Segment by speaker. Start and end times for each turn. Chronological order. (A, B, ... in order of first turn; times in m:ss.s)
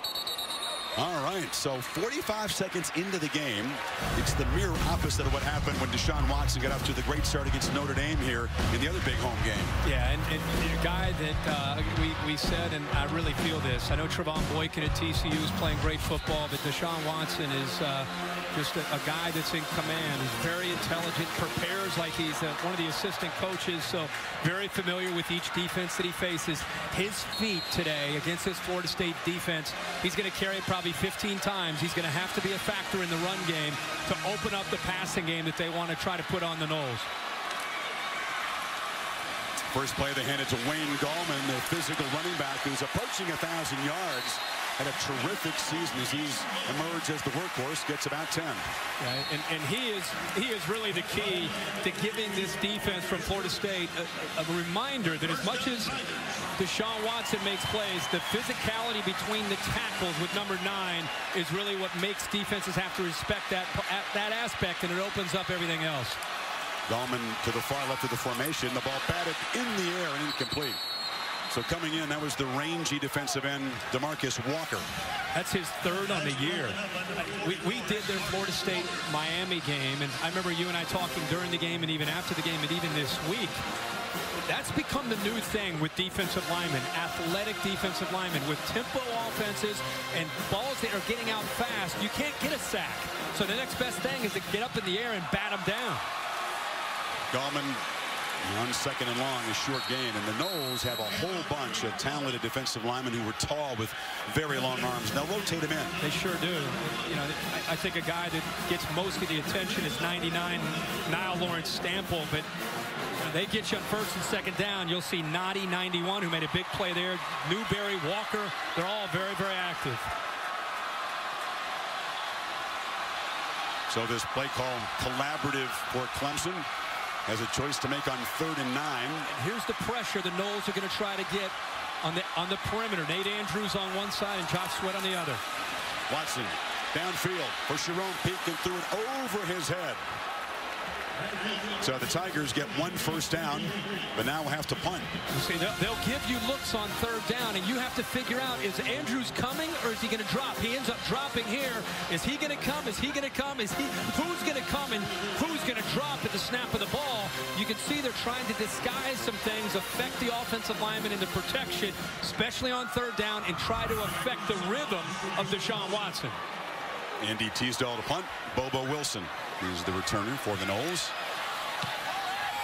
0:01.0-0:09.8 A
0:09.8-0:37.1 B
0:39.7-0:48.7 A
0:49.0-0:56.0 B
0:56.6-1:06.2 B
1:06.9-1:10.8 A
1:11.5-1:14.9 A
1:15.3-1:23.6 B
1:24.5-1:36.0 B
1:37.3-1:37.8 A
1:38.4-1:46.0 A
1:46.0-1:52.5 B
1:53.2-2:00.1 B
2:03.9-2:06.7 A
2:07.3-2:09.3 A
2:09.3-2:15.4 B
2:16.1-2:20.0 A
2:21.8-2:25.1 A
2:25.3-2:46.4 B
2:47.2-2:51.2 A